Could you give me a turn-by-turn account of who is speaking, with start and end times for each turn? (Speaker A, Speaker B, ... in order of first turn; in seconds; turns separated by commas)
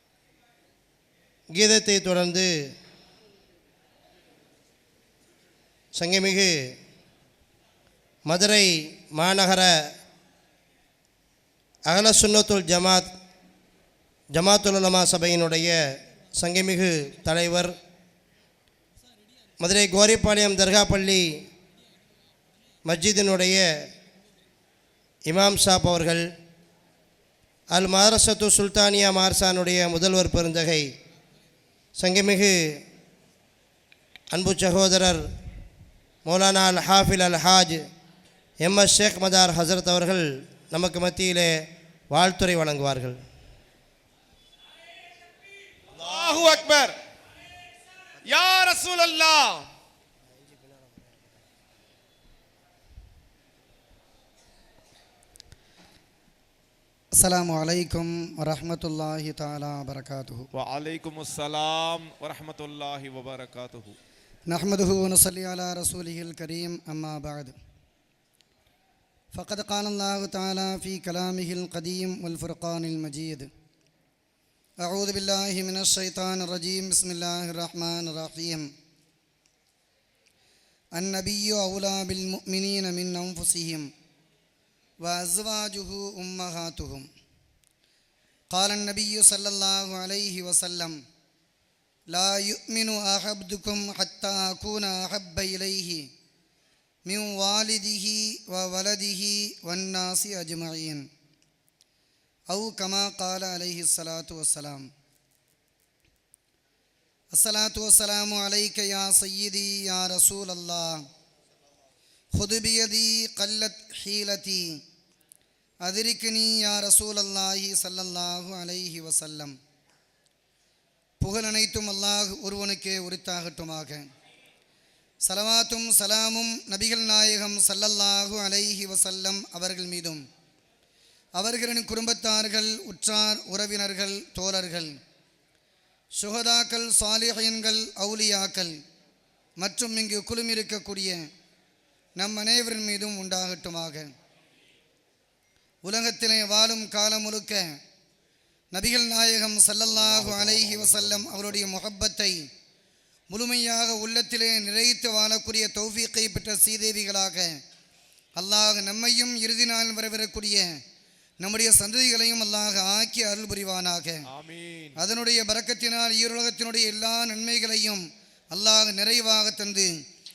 Speaker A: 1.6-2.5, Speaker A: 6.0-6.7, Speaker A: 8.3-9.7, Speaker A: 11.9-13.1, Speaker A: 14.3-15.8, Speaker A: 16.4-17.7, Speaker A: 19.6-21.3, Speaker A: 22.9-23.6, Speaker A: 25.3-26.2, Speaker A: 27.7-30.9, Speaker A: 32.0-32.5, Speaker A: 34.3-35.2, Speaker A: 36.3-37.8, Speaker A: 38.6-41.5, Speaker A: 42.1-43.2, Speaker B: 45.9-47.0, Speaker B: 48.2-49.7, Speaker C: 57.2-60.5, Speaker B: 60.5-64.0, Speaker C: 64.5-67.5, Speaker C: 69.3-73.5, Speaker C: 74.8-78.7, Speaker C: 81.0-83.9, Speaker C: 85.0-87.1, Speaker C: 88.5-91.0, Speaker C: 92.1-96.1, Speaker C: 97.1-101.1, Speaker C: 102.5-104.9, Speaker C: 107.3-111.0, Speaker C: 112.3-114.8, Speaker C: 115.8-119.6, Speaker C: 121.2-124.1, Speaker C: 125.2-130.2, Speaker C: 131.4-134.9, Speaker C: 136.2-138.8, Speaker C: 139.6-141.2, Speaker C: 142.2-144.1, Speaker C: 145.8-147.7, Speaker C: 148.7-152.4, Speaker A: 149.9-151.7, Speaker C: 153.3-157.6, Speaker C: 158.4-160.7, Speaker C: 161.4-164.2, Speaker B: 164.3-165.1, Speaker C: 165.0-169.9